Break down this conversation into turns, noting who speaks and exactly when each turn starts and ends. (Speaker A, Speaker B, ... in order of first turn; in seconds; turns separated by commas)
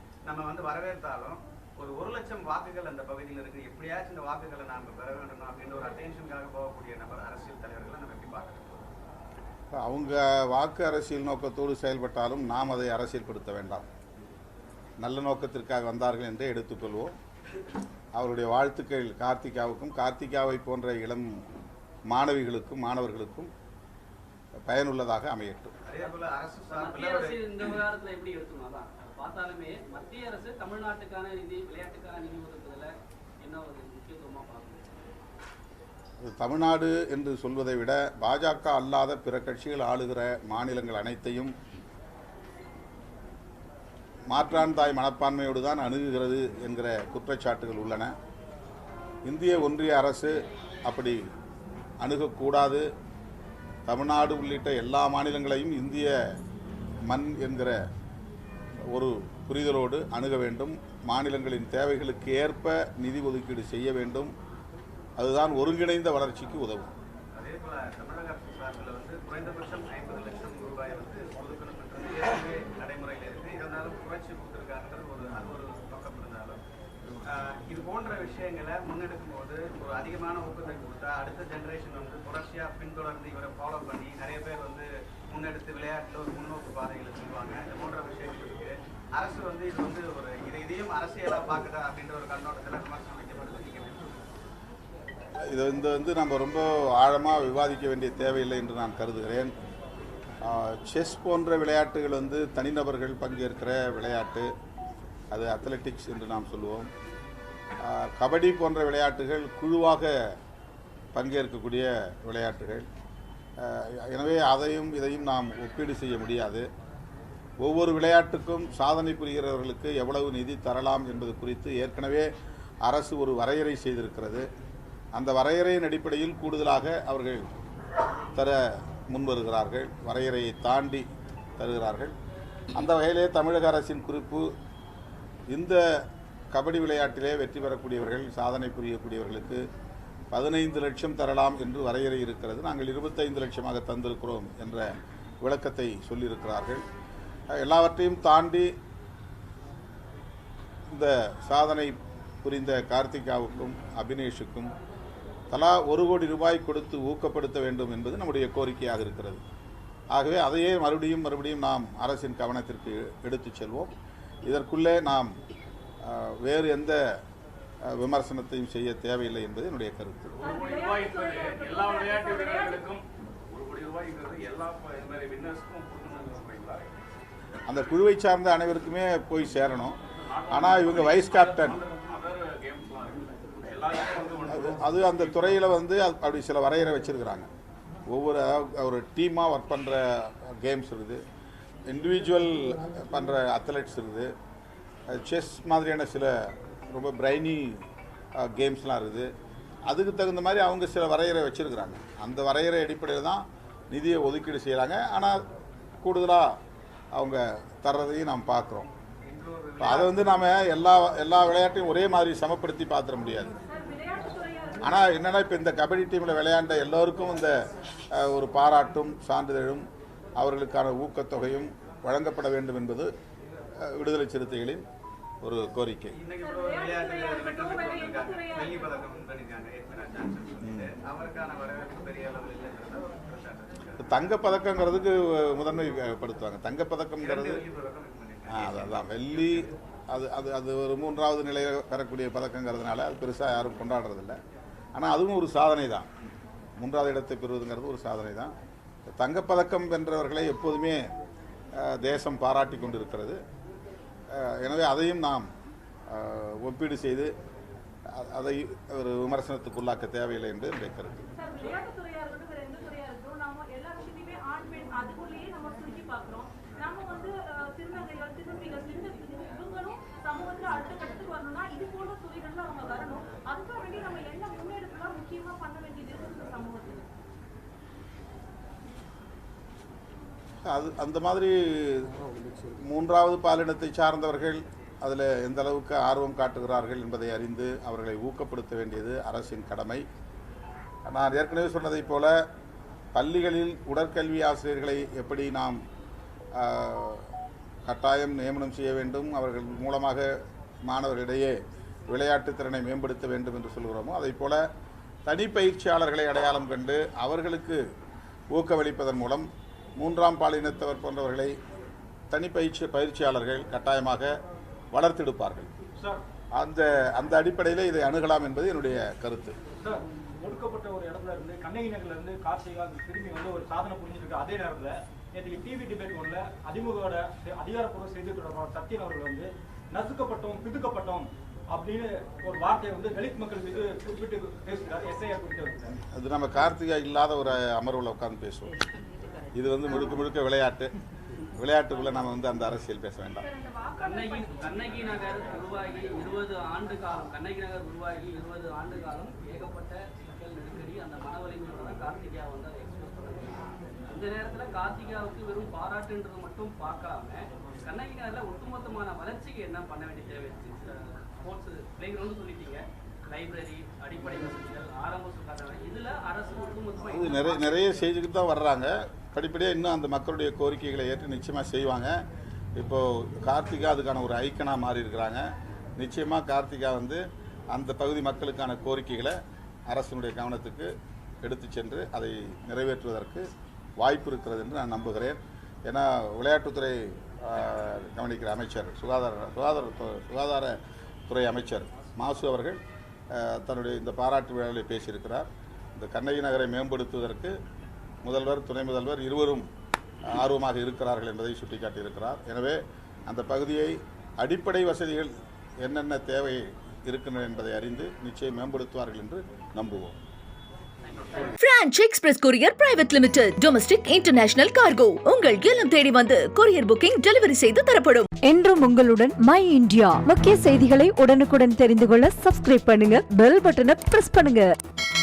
Speaker A: 0.2-8.9, Speaker B: 9.7-13.8, Speaker B: 15.0-17.1, Speaker B: 18.1-21.3, Speaker B: 22.1-23.5, Speaker B: 24.6-25.7, Speaker A: 25.9-27.4, Speaker C: 26.7-34.9, Speaker B: 36.2-41.5, Speaker B: 44.3-48.1, Speaker B: 49.2-51.2, Speaker B: 52.0-52.8, Speaker B: 53.9-56.1, Speaker B: 57.1-57.8, Speaker B: 58.9-64.3, Speaker B: 65.2-66.9, Speaker A: 67.3-76.6, Speaker A: 77.2-94.2, Speaker B: 95.5-99.5, Speaker B: 100.4-104.5, Speaker B: 105.3-106.9, Speaker B: 107.8-110.1, Speaker B: 111.1-112.9, Speaker B: 113.6-116.6, Speaker B: 117.6-122.3, Speaker B: 122.8-124.5, Speaker B: 125.1-127.5, Speaker B: 129.1-131.0, Speaker B: 131.6-132.1, Speaker B: 132.7-134.5, Speaker B: 135.5-135.8, Speaker B: 136.5-139.6, Speaker B: 140.3-146.8, Speaker B: 147.6-148.7, Speaker B: 150.9-154.7, Speaker B: 155.5-159.4, Speaker B: 160.1-163.9, Speaker B: 164.4-165.3, Speaker B: 166.0-167.0, Speaker B: 167.8-170.3, Speaker D: 170.3-176.9, Speaker E: 170.4-172.8, Speaker B: 177.7-180.0, Speaker D: 180.1-185.5, Speaker B: 180.5-181.8, Speaker B: 184.5-187.5, Speaker B: 188.1-191.2, Speaker B: 191.9-194.3, Speaker B: 195.1-197.8, Speaker B: 198.4-199.3, Speaker B: 199.8-205.4, Speaker B: 206.0-206.5, Speaker B: 207.1-208.9, Speaker A: 209.2-210.3, Speaker B: 209.8-213.5, Speaker E: 213.6-215.1, Speaker B: 214.8-217.5, Speaker B: 218.1-219.8, Speaker B: 220.4-223.1, Speaker B: 223.8-224.8, Speaker B: 225.4-226.2, Speaker A: 226.2-234.2, Speaker E: 226.4-229.1, Speaker B: 230.6-230.9, Speaker B: 234.0-237.6, Speaker A: 237.2-239.7, Speaker B: 238.5-244.4, Speaker B: 244.9-246.1, Speaker B: 246.8-248.5, Speaker B: 249.2-251.0, Speaker B: 251.7-253.4, Speaker B: 254.3-255.5, Speaker B: 256.1-257.3, Speaker B: 258.1-261.2, Speaker E: 261.4-277.1, Speaker B: 280.6-282.1, Speaker B: 282.8-290.0, Speaker B: 291.1-292.4, Speaker B: 293.1-295.8, Speaker B: 296.5-297.3, Speaker B: 297.8-300.3, Speaker B: 300.8-301.5, Speaker B: 302.1-304.6, Speaker B: 305.2-307.8, Speaker B: 308.5-309.5, Speaker B: 310.0-311.5, Speaker B: 312.3-314.3, Speaker B: 314.9-315.7, Speaker F: 315.9-316.2, Speaker B: 316.5-319.5, Speaker F: 319.8-335.9, Speaker B: 336.1-338.8, Speaker B: 339.5-340.9, Speaker B: 341.6-343.4, Speaker E: 343.4-345.0, Speaker C: 343.9-368.0, Speaker B: 367.1-372.1, Speaker B: 372.8-375.4, Speaker B: 376.0-379.4, Speaker B: 379.9-380.9, Speaker B: 381.4-383.5, Speaker B: 384.0-390.7, Speaker B: 391.3-392.8, Speaker B: 393.3-397.5, Speaker B: 398.2-399.7, Speaker B: 400.3-405.3, Speaker B: 405.8-410.1, Speaker C: 411.0-411.6, Speaker G: 411.6-418.3, Speaker H: 418.4-424.7